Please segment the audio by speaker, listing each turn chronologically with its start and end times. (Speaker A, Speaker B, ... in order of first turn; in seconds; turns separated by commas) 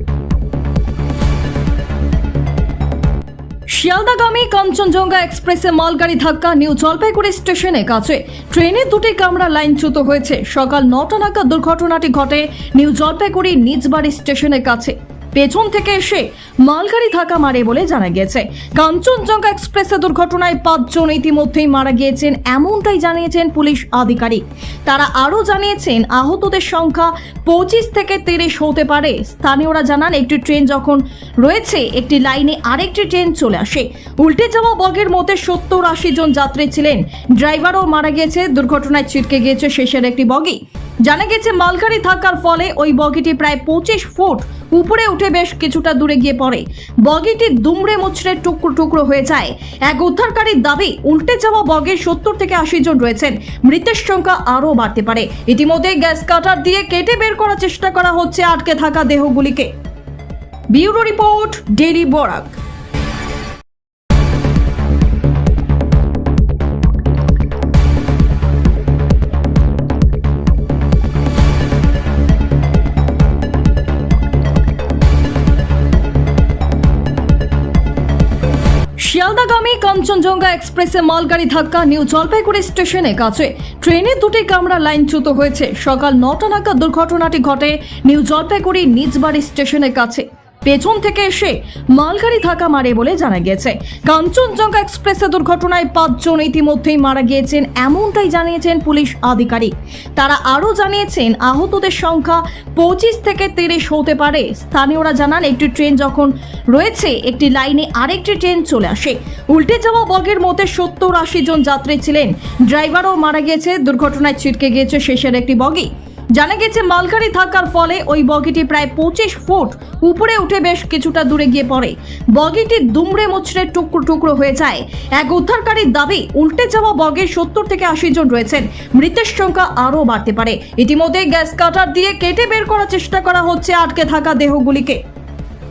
Speaker A: 3.7-59.7, Speaker A: 60.7-62.5, Speaker A: 79.0-135.0